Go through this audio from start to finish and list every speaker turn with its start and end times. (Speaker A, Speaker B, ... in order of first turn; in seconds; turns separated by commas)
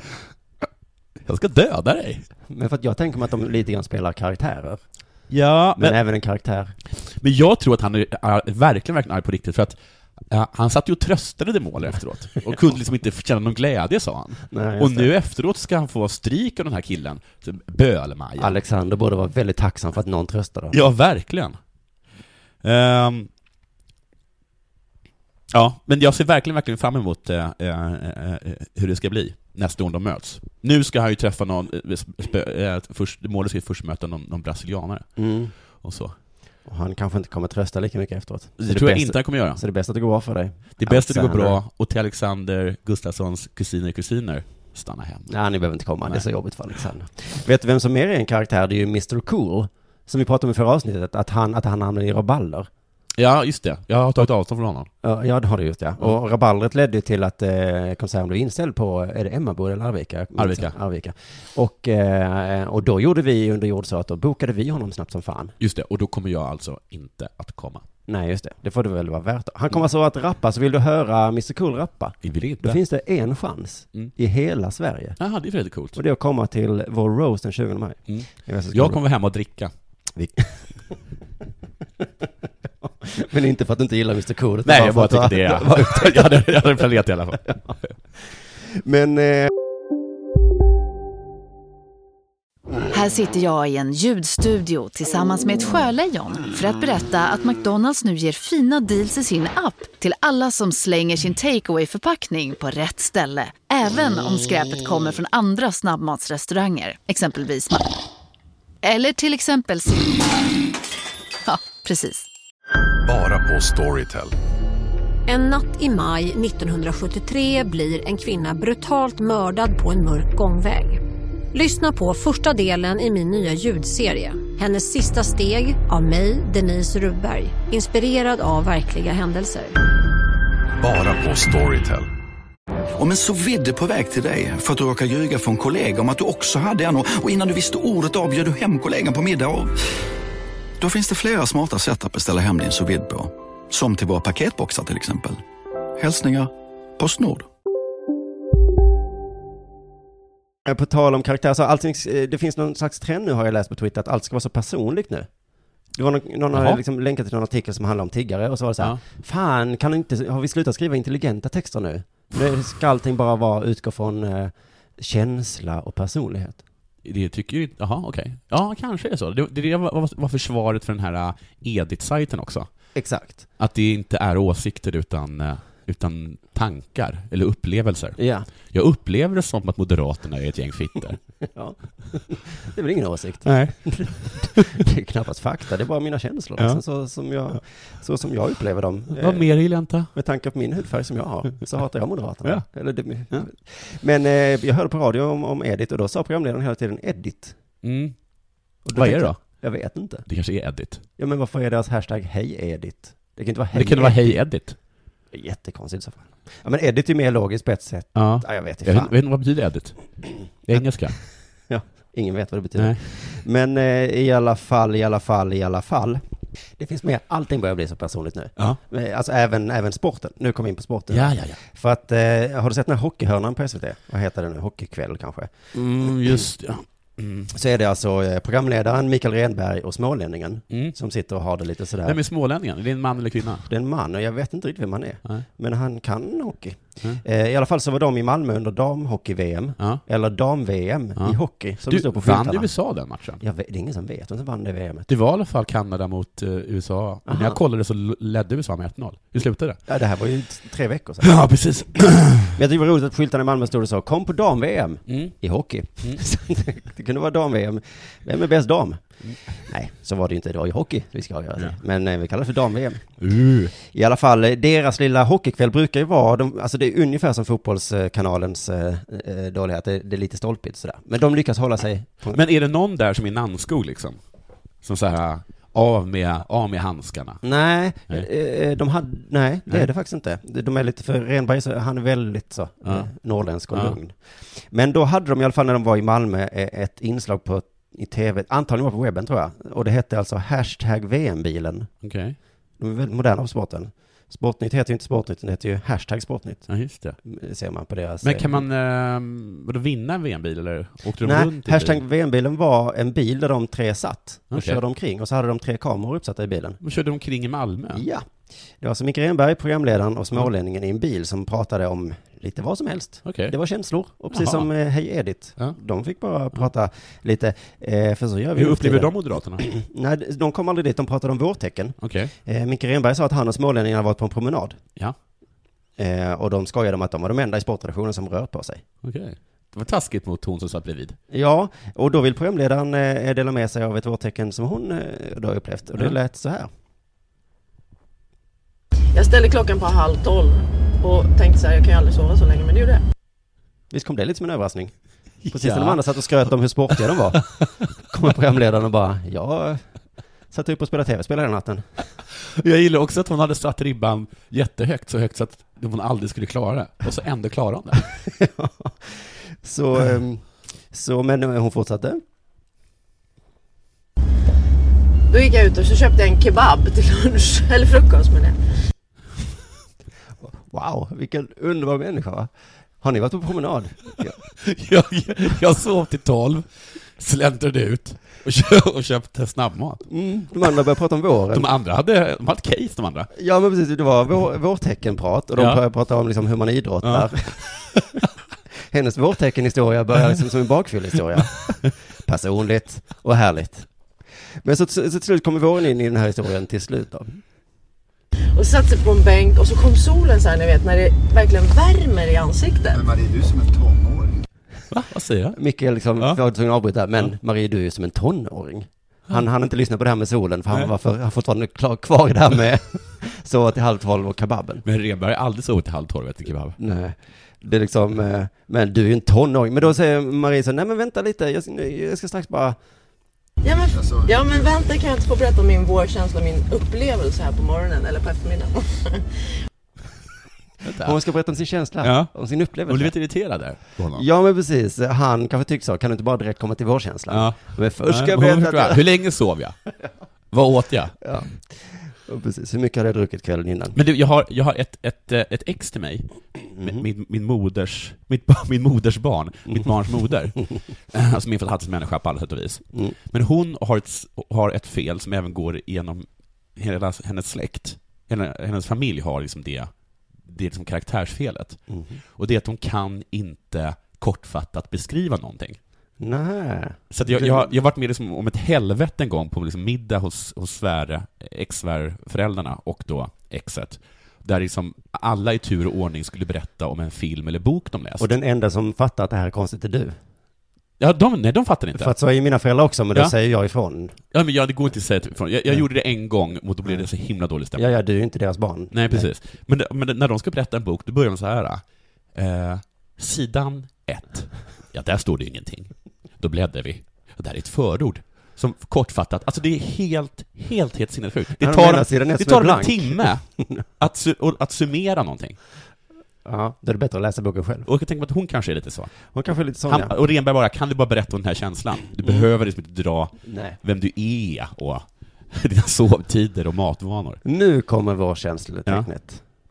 Speaker A: 1.2-2.3, Speaker B: 2.5-4.8, Speaker A: 5.3-6.0, Speaker B: 5.8-6.7, Speaker A: 7.0-9.8, Speaker A: 10.3-18.6, Speaker B: 14.5-15.1, Speaker B: 18.4-20.8, Speaker A: 20.7-21.6, Speaker A: 22.6-23.3, Speaker A: 25.5-35.2, Speaker B: 35.2-35.5, Speaker A: 35.8-36.1, Speaker B: 36.7-41.6, Speaker A: 38.6-39.6, Speaker A: 40.8-45.3, Speaker B: 45.3-52.7, Speaker A: 53.2-54.9, Speaker B: 55.0-65.5, Speaker A: 60.4-60.8, Speaker A: 65.6-67.9, Speaker B: 68.1-75.2, Speaker A: 72.2-72.8, Speaker A: 75.2-76.0, Speaker B: 76.0-79.0, Speaker A: 78.1-79.7, Speaker B: 80.2-81.0, Speaker B: 83.0-86.6, Speaker A: 84.7-87.5, Speaker B: 88.8-89.5, Speaker C: 92.9-107.9, Speaker C: 108.8-110.3, Speaker C: 111.5-112.3, Speaker D: 113.0-114.3, Speaker E: 115.3-121.0, Speaker E: 121.5-129.7, Speaker D: 130.8-132.1, Speaker F: 133.0-139.8, Speaker F: 140.8-145.4, Speaker F: 146.0-147.5, Speaker B: 150.7-155.3, Speaker B: 155.9-166.6, Speaker A: 156.5-156.8, Speaker A: 167.1-172.7, Speaker B: 172.9-173.5, Speaker A: 173.6-178.2, Speaker B: 178.2-178.5, Speaker A: 178.7-181.2, Speaker B: 181.6-189.5, Speaker A: 183.4-184.6, Speaker A: 189.2-190.1, Speaker B: 190.1-197.6, Speaker A: 197.8-198.2, Speaker B: 198.9-200.3, Speaker A: 198.9-199.4, Speaker A: 200.3-201.0, Speaker B: 201.2-204.4, Speaker A: 203.7-204.8, Speaker B: 205.3-209.2, Speaker A: 208.2-210.0, Speaker A: 210.7-211.2, Speaker B: 211.7-216.2, Speaker A: 212.8-213.0, Speaker B: 216.8-226.4, Speaker A: 221.1-221.6, Speaker A: 225.8-227.5, Speaker B: 227.5-232.2, Speaker A: 232.1-233.7, Speaker B: 233.7-242.7, Speaker A: 241.2-243.4, Speaker B: 243.4-245.1, Speaker A: 245.1-249.8, Speaker B: 247.3-247.6, Speaker B: 249.9-251.4, Speaker A: 251.2-252.6, Speaker B: 252.6-259.0, Speaker A: 255.1-255.3, Speaker B: 259.6-263.0, Speaker A: 263.2-263.7, Speaker B: 263.8-272.4, Speaker A: 272.3-274.2, Speaker A: 274.8-277.4, Speaker B: 277.4-284.1, Speaker B: 284.7-291.9, Speaker A: 292.0-292.4, Speaker B: 292.8-296.7, Speaker A: 296.7-297.2, Speaker B: 297.2-298.6, Speaker A: 298.2-302.0, Speaker B: 301.2-306.8, Speaker A: 304.5-304.8, Speaker A: 306.8-308.1, Speaker B: 307.9-308.2, Speaker B: 308.8-324.8, Speaker A: 313.3-313.6, Speaker A: 314.3-314.7, Speaker A: 318.6-319.7, Speaker A: 322.0-322.3, Speaker B: 326.0-328.8, Speaker A: 329.0-331.2, Speaker B: 331.3-336.7, Speaker G: 339.1-343.0, Speaker B: 343.9-344.9, Speaker A: 345.4-346.0, Speaker B: 345.5-347.4, Speaker B: 348.1-349.8, Speaker B: 350.5-351.8, Speaker A: 352.4-358.0, Speaker B: 358.4-362.2, Speaker G: 365.3-368.6, Speaker B: 370.4-372.5, Speaker B: 373.0-374.4, Speaker A: 374.6-376.6, Speaker A: 377.2-380.1, Speaker B: 380.1-381.7, Speaker A: 381.5-383.3, Speaker B: 383.4-387.6, Speaker A: 387.0-387.3, Speaker B: 388.9-393.9, Speaker B: 394.6-397.4, Speaker G: 398.6-403.1, Speaker A: 404.9-405.6, Speaker B: 405.6-414.8, Speaker A: 414.9-416.8, Speaker B: 416.8-422.8, Speaker G: 423.6-429.3, Speaker A: 430.9-431.2, Speaker B: 431.0-433.1, Speaker A: 432.0-432.4, Speaker A: 432.9-434.3, Speaker B: 434.1-439.0, Speaker A: 437.3-439.8, Speaker A: 440.5-441.2, Speaker B: 441.2-444.0, Speaker A: 443.9-446.2, Speaker B: 446.8-447.1, Speaker A: 446.8-450.6, Speaker A: 451.1-459.9, Speaker A: 460.4-461.8, Speaker B: 461.9-462.2, Speaker A: 462.4-465.8, Speaker B: 466.2-467.7, Speaker A: 467.1-478.3, Speaker B: 478.2-480.2, Speaker A: 481.0-482.1, Speaker B: 482.0-484.2, Speaker A: 484.3-487.8, Speaker B: 487.8-489.3, Speaker A: 488.9-491.8, Speaker A: 492.4-503.4, Speaker B: 501.6-503.8, Speaker A: 504.0-505.6, Speaker B: 506.4-507.9, Speaker A: 507.9-509.1, Speaker B: 509.3-510.1, Speaker A: 509.9-517.4, Speaker B: 513.5-513.8, Speaker B: 517.5-519.4